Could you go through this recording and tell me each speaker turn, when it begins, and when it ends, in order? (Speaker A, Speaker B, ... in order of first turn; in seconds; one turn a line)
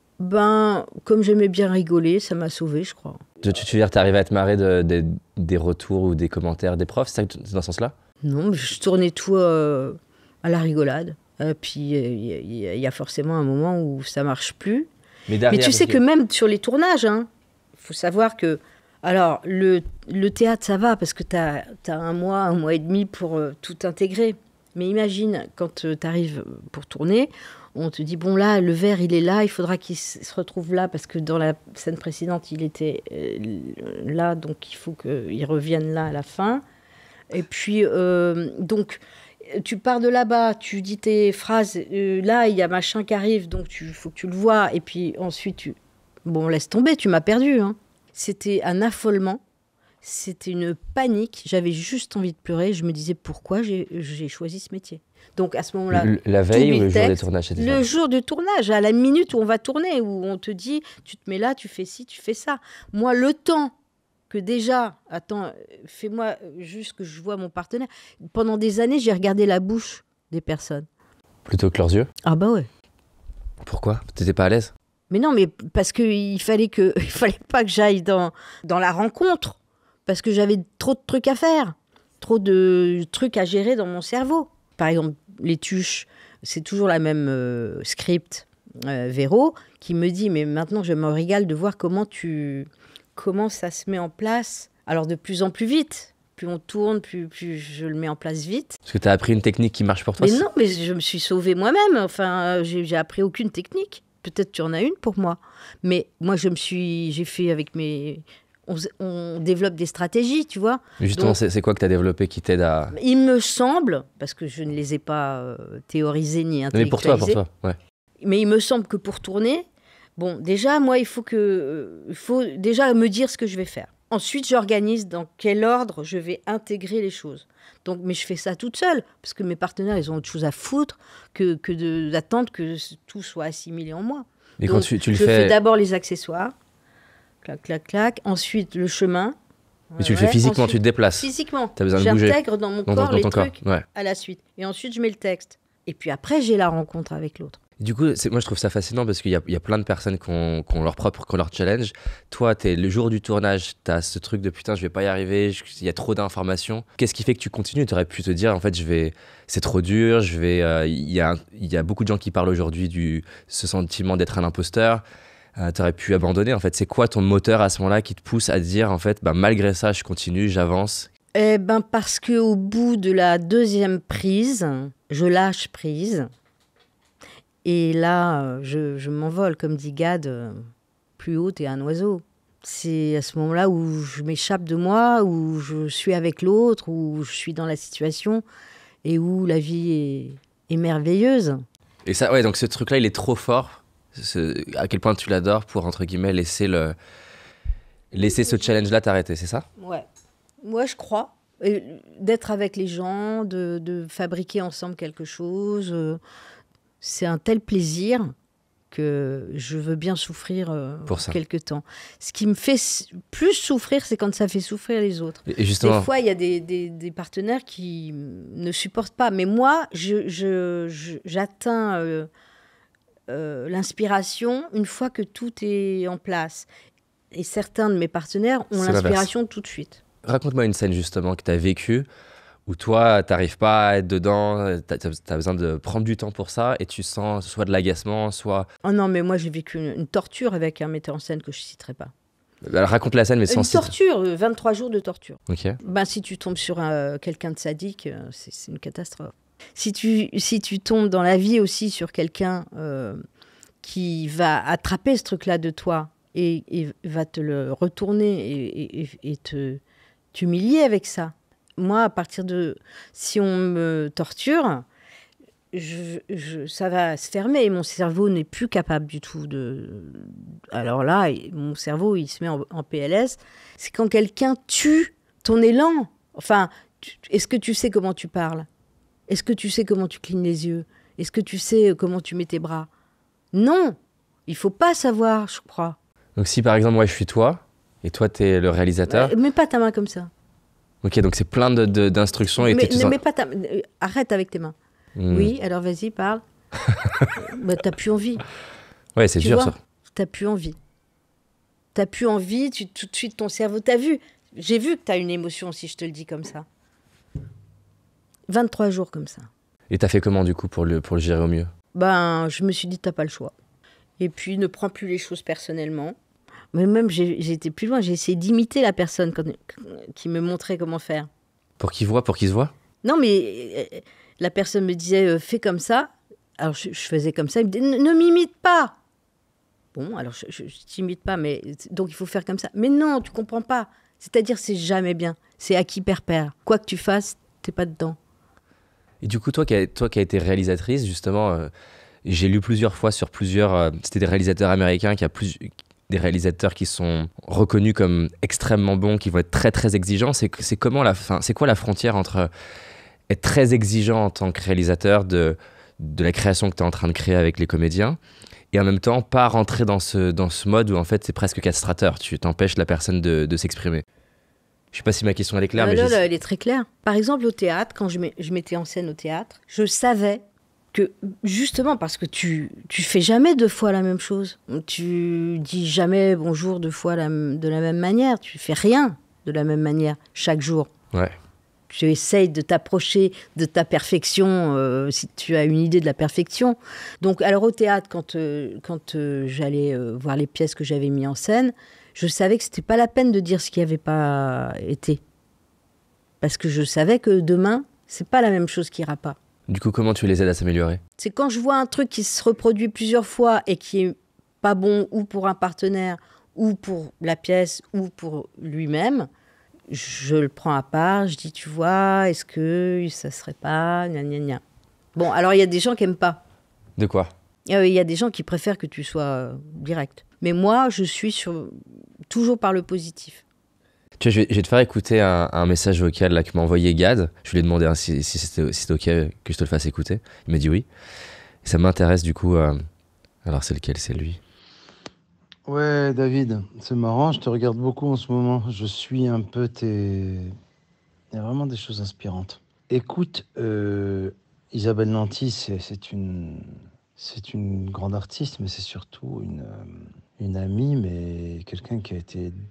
Speaker A: 0.2-3.2
Speaker B: 3.4-8.0
Speaker A: 8.2-14.9
Speaker B: 15.3-16.0
Speaker A: 15.5-36.6
Speaker A: 37.3-49.4
Speaker A: 50.0-63.7
Speaker B: 55.9-57.9
Speaker A: 64.3-70.9
Speaker B: 71.5-72.1
Speaker A: 72.2-72.7
Speaker B: 73.6-74.7
Speaker A: 75.1-98.8
Speaker B: 98.9-100.5
Speaker A: 100.2-111.4
Speaker B: 111.0-113.0
Speaker A: 112.9-117.4
Speaker B: 116.7-117.8
Speaker A: 118.2-119.7
Speaker A: 120.2-136.5
Speaker B: 134.6-135.6
Speaker A: 137.4-139.4
Speaker A: 139.9-147.6
Speaker B: 140.0-143.8
Speaker B: 147.8-165.0
Speaker B: 165.6-171.1
Speaker A: 171.3-176.3
Speaker A: 177.6-188.4
Speaker A: 189.0-191.6
Speaker B: 192.1-197.0
Speaker B: 198.1-199.7
Speaker A: 199.8-200.1
Speaker A: 200.6-206.2
Speaker A: 207.0-208.3
Speaker A: 208.9-222.3
Speaker B: 211.1-211.4
Speaker B: 215.5-216.1
Speaker A: 223.3-226.7
Speaker A: 227.3-230.0
Speaker B: 228.7-229.3
Speaker B: 230.2-232.1
Speaker B: 232.7-238.7
Speaker A: 238.8-242.1
Speaker B: 242.6-243.9
Speaker A: 243.5-253.2
Speaker B: 245.5-245.8
Speaker A: 253.8-259.8
Speaker A: 260.3-264.9
Speaker A: 265.7-278.7
Speaker A: 279.3-282.9
Speaker A: 283.5-286.0
Speaker B: 286.4-289.3
Speaker A: 289.1-290.3
Speaker B: 291.0-293.2
Speaker A: 292.6-294.8
Speaker B: 295.2-295.5
Speaker A: 295.3-296.4
Speaker B: 296.8-297.3
Speaker A: 297.4-298.4
Speaker B: 299.2-299.8
Speaker A: 299.4-300.8
Speaker A: 301.9-306.7
Speaker A: 308.5-309.5
Speaker B: 309.9-311.7
Speaker A: 311.9-313.5
Speaker A: 314.2-316.2
Speaker A: 316.7-321.3
Speaker B: 321.8-322.7
Speaker A: 323.0-329.0
Speaker A: 329.9-338.2
Speaker B: 339.2-341.7
Speaker B: 342.2-352.5
Speaker B: 353.3-358.2
Speaker B: 358.7-364.0
Speaker B: 364.9-366.2
Speaker A: 365.8-380.9
Speaker A: 381.9-395.2
Speaker A: 396.4-399.4
Speaker B: 399.7-401.0
Speaker A: 401.2-409.3
Speaker A: 409.9-414.6
Speaker A: 415.1-416.4
Speaker B: 417.0-417.3
Speaker A: 417.7-423.4
Speaker B: 424.2-430.9
Speaker B: 431.6-432.8
Speaker B: 433.4-434.4
Speaker C: 435.7-440.6
Speaker C: 441.3-452.6